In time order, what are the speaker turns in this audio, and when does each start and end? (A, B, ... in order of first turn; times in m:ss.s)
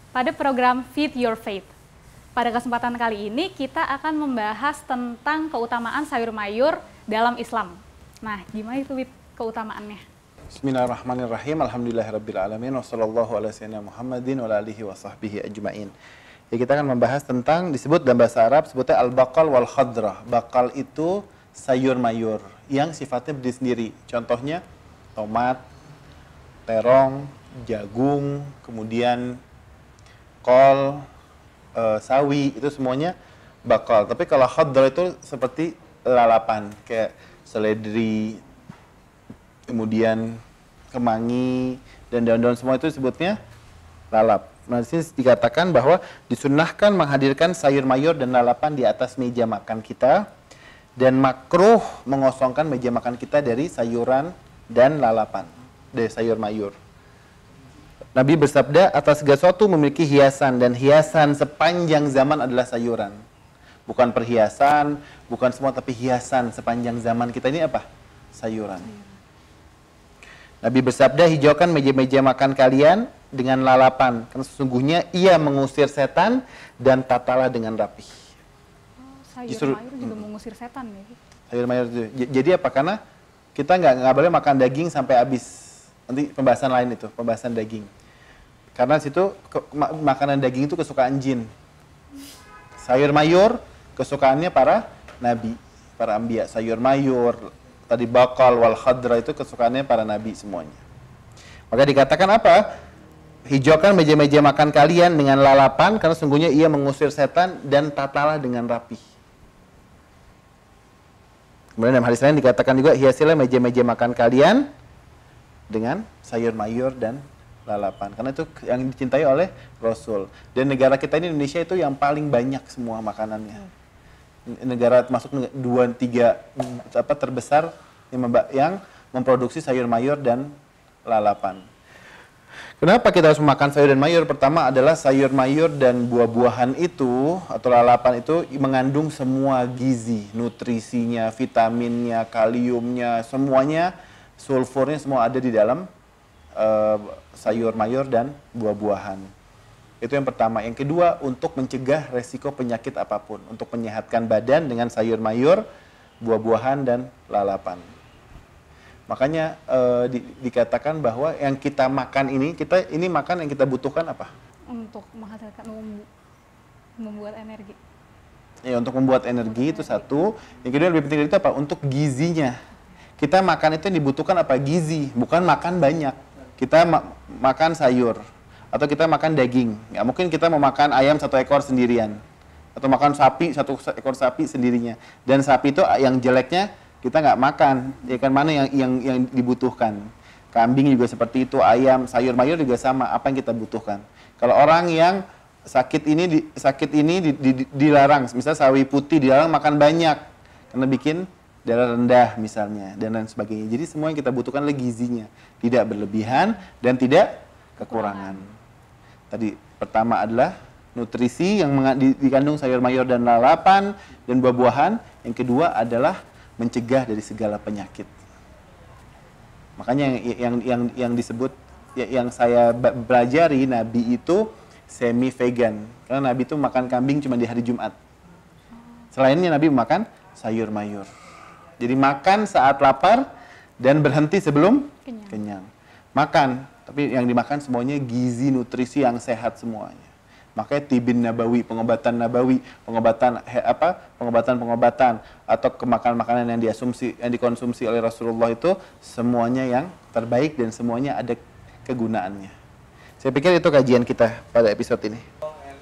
0:00.1-0:01.7 A
0:02.4-0:10.0 A
0:10.5-0:15.9 B
0:16.5-0:24.6 B
0:25.2-0:25.6 B
0:26.7-0:29.4 B
0:30.4-0:31.0 B
0:31.7-0:38.4 B
0:39.7-0:43.4 B
0:44.1-0:50.3 B
0:51.0-0:56.8 B
0:58.2-1:03.2 B
1:03.9-1:08.9 B
1:10.6-1:18.1 B
1:19.0-1:21.2 A
1:19.5-1:20.2 B
1:21.5-1:23.0 B
1:23.6-1:27.9 B
1:28.8-1:31.5 B
1:32.8-1:40.8 B
1:41.7-1:42.6 B
1:43.5-1:49.0 B
1:51.8-1:54.7 B
1:55.7-2:03.6 B
2:04.4-2:10.5 B
2:11.0-2:11.6 B
2:12.8-2:25.9 B
2:26.6-2:29.3 B
2:30.0-2:35.6 B
2:36.2-2:37.8 B
2:39.1-2:44.3 B
2:44.7-2:46.1 A
2:47.0-2:47.8 A
2:48.6-2:52.6 B
2:49.4-2:50.2 A
2:53.2-2:58.2 B
2:58.7-3:02.2 B
3:02.8-3:28.5 B
3:27.8-3:28.4 A
3:29.3-3:38.1 B
3:39.8-3:47.9 B
3:49.1-3:51.1 B
3:51.8-3:53.2 B
3:53.8-4:12.5 B
3:55.0-3:55.4 A
4:13.2-4:15.2 B